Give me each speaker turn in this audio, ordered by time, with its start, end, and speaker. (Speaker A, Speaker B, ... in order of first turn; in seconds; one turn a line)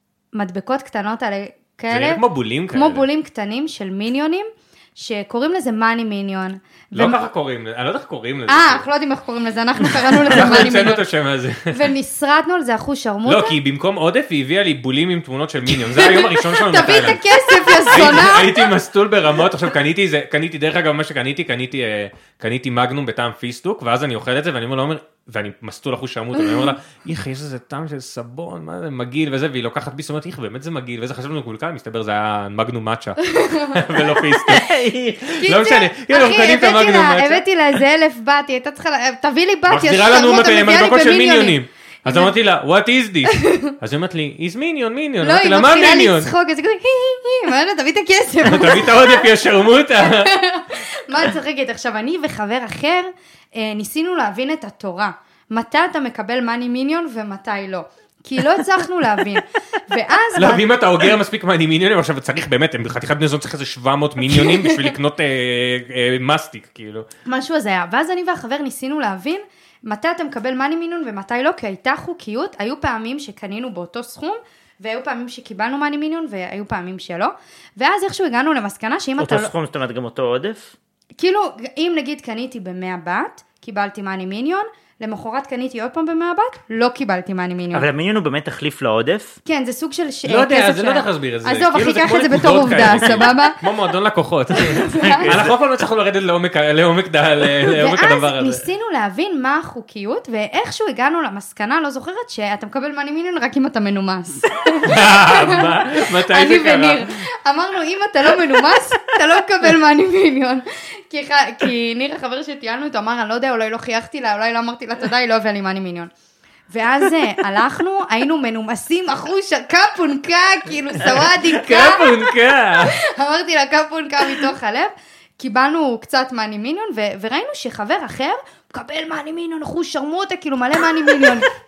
Speaker A: 0.3-7.2
Speaker B: 1.9-3.1
Speaker B: 6.9-8.8
Speaker A: 8.5-11.0
Speaker B: 10.2-11.8
Speaker A: 11.7-13.6
Speaker B: 13.2-34.7
Speaker A: 15.7-18.7
Speaker A: 33.2-34.2
Speaker C: 34.5-35.3
Speaker B: 35.2-37.4
Speaker A: 35.4-42.3
Speaker B: 39.7-46.3
Speaker A: 43.4-43.7
Speaker A: 45.2-49.3
Speaker B: 48.4-50.3
Speaker A: 50.0-60.7
Speaker B: 60.3-67.1
Speaker A: 64.3-64.9
Speaker A: 67.2-79.5
Speaker C: 79.2-80.7
Speaker A: 81.2-87.9
Speaker C: 87.7-89.4
Speaker A: 89.4-93.6
Speaker B: 90.2-98.7
Speaker A: 94.5-95.4
Speaker C: 95.0-95.5
Speaker A: 97.7-116.1
Speaker B: 104.8-107.2
Speaker A: 116.7-131.5
Speaker B: 121.0-123.0